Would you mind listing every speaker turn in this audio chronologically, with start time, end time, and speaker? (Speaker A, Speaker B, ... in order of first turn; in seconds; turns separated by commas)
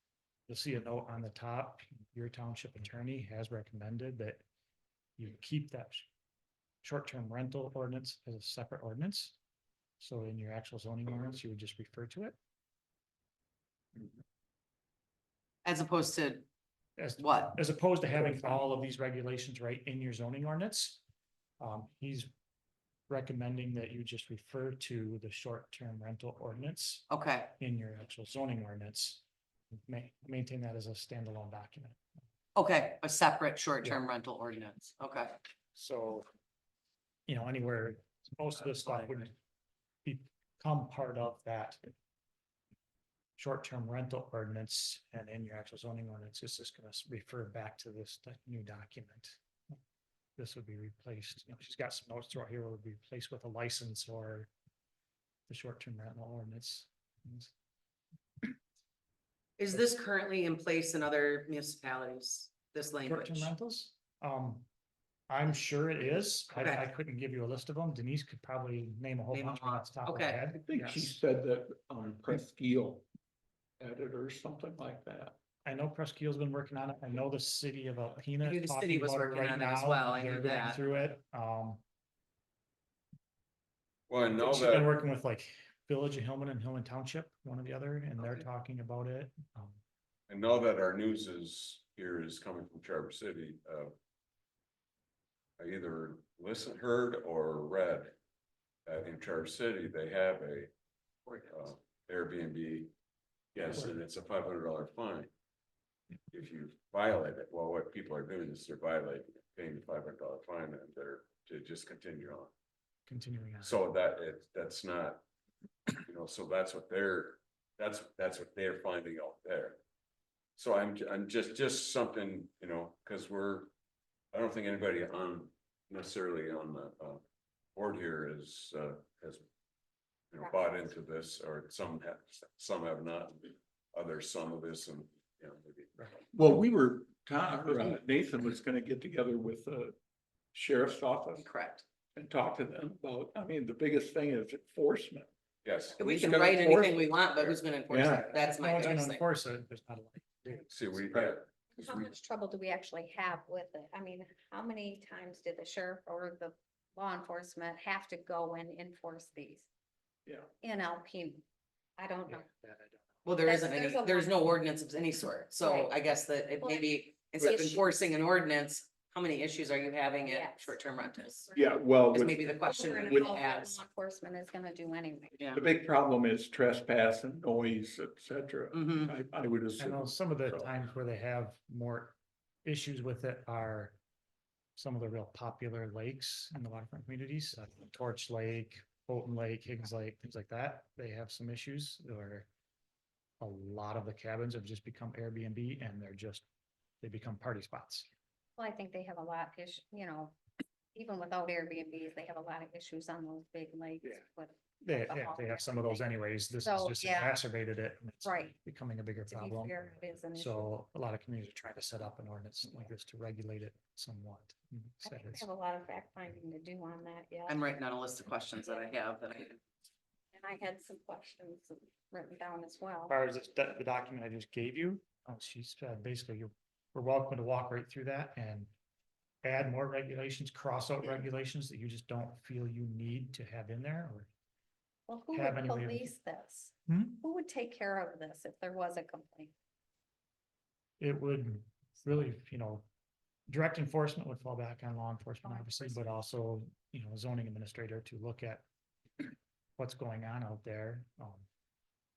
Speaker A: 0.5-4.4, Speaker A: 5.2-6.1, Speaker A: 6.8-9.4, Speaker A: 10.0-12.4, Speaker B: 15.7-16.4, Speaker A: 17.0-21.0, Speaker B: 17.2-17.6, Speaker A: 21.6-22.3, Speaker A: 23.1-29.2, Speaker B: 27.1-27.5, Speaker A: 29.9-32.0, Speaker B: 32.5-35.4, Speaker A: 35.8-36.3, Speaker A: 37.3-39.4, Speaker A: 40.0-41.9, Speaker A: 43.4-49.4, Speaker A: 50.4-54.5, Speaker A: 55.5-57.5, Speaker B: 59.6-63.5, Speaker A: 63.1-64.7, Speaker A: 65.3-71.2, Speaker B: 66.6-66.9, Speaker B: 69.3-70.5, Speaker C: 70.7-73.1, Speaker C: 73.8-75.4, Speaker A: 75.7-81.8, Speaker B: 78.4-80.8, Speaker D: 84.1-84.9, Speaker A: 84.3-89.8, Speaker D: 90.3-94.0, Speaker D: 95.6-98.1, Speaker D: 98.9-100.7, Speaker D: 101.5-102.9, Speaker D: 103.5-105.3, Speaker D: 106.3-112.5, Speaker A: 113.1-113.8, Speaker D: 113.6-115.2, Speaker D: 116.1-119.8, Speaker D: 120.6-123.7, Speaker D: 124.3-127.2, Speaker D: 127.8-129.4, Speaker D: 130.3-136.2, Speaker C: 136.3-140.0, Speaker C: 140.5-141.5, Speaker B: 141.4-141.8, Speaker C: 142.1-145.3, Speaker D: 145.6-146.0, Speaker C: 146.0-148.4, Speaker B: 146.0-149.2, Speaker A: 148.3-151.0, Speaker D: 150.7-152.1, Speaker E: 151.8-159.7, Speaker E: 160.6-161.4, Speaker E: 162.0-162.5, Speaker A: 162.3-163.0, Speaker B: 163.2-171.5, Speaker E: 163.4-164.4, Speaker E: 165.6-166.0, Speaker E: 166.6-166.9, Speaker E: 167.4-167.8, Speaker E: 170.2-171.8, Speaker C: 171.5-173.3, Speaker B: 172.1-173.8, Speaker E: 172.5-175.4, Speaker B: 175.4-175.7, Speaker C: 175.5-180.7, Speaker B: 178.7-179.1, Speaker A: 179.8-184.0, Speaker A: 184.8-192.5, Speaker A: 193.4-196.4, Speaker A: 197.0-198.1, Speaker E: 198.6-200.4, Speaker E: 200.9-206.1, Speaker A: 204.8-209.8, Speaker E: 206.6-207.3, Speaker E: 208.2-208.5, Speaker E: 209.3-210.7, Speaker A: 210.3-215.5, Speaker E: 215.0-217.6, Speaker B: 217.5-219.6, Speaker E: 220.3-223.1, Speaker A: 223.1-228.7, Speaker A: 229.4-234.3, Speaker E: 235.1-239.5, Speaker A: 235.3-236.1, Speaker A: 236.9-237.2, Speaker A: 241.0-242.9, Speaker A: 243.5-248.7, Speaker E: 245.4-246.0, Speaker A: 249.2-251.5